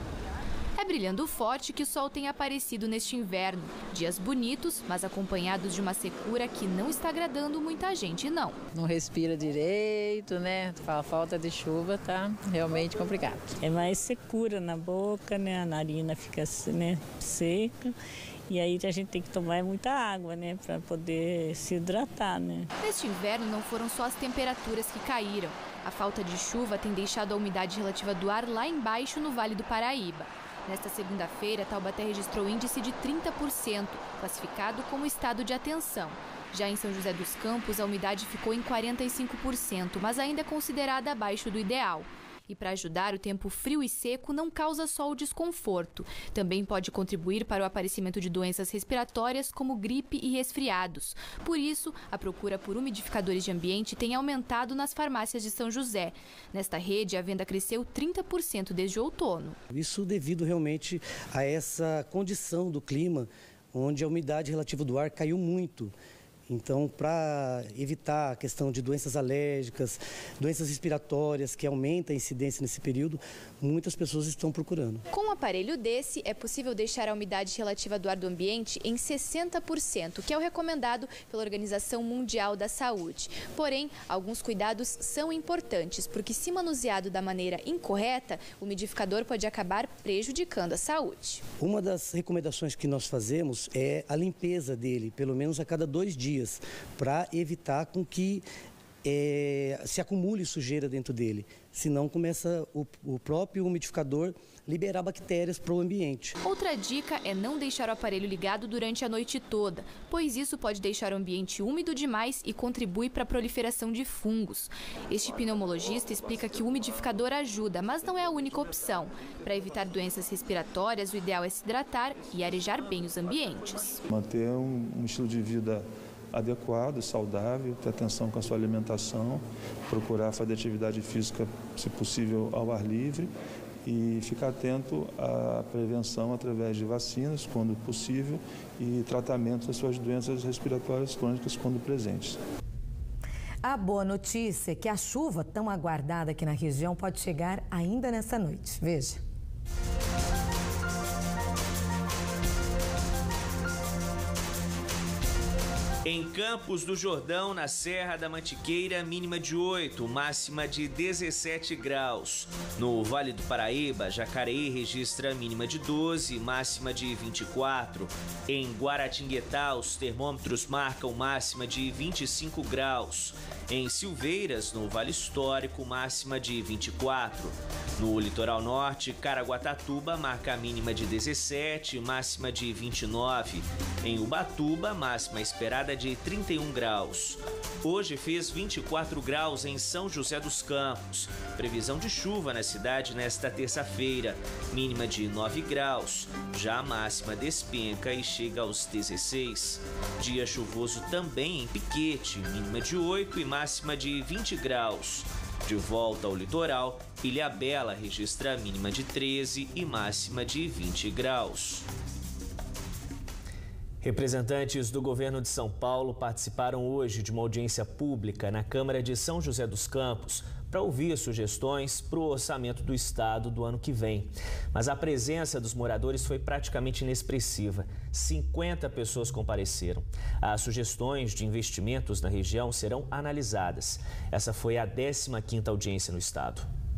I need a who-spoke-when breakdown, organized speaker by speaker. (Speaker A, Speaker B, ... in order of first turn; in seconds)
Speaker A: 0.8-8.6, 22.8-59.6, 75.1-91.4, 106.4-124.0
Speaker B: 8.7-13.5
Speaker C: 13.6-17.9, 18.5-22.7
Speaker D: 59.7-65.9, 66.5-75.0, 91.6-98.4, 99.0-106.3
Speaker E: 124.1-133.3, 133.8-142.4
Speaker F: 143.6-149.2
Speaker G: 156.0-211.8, 214.0-236.7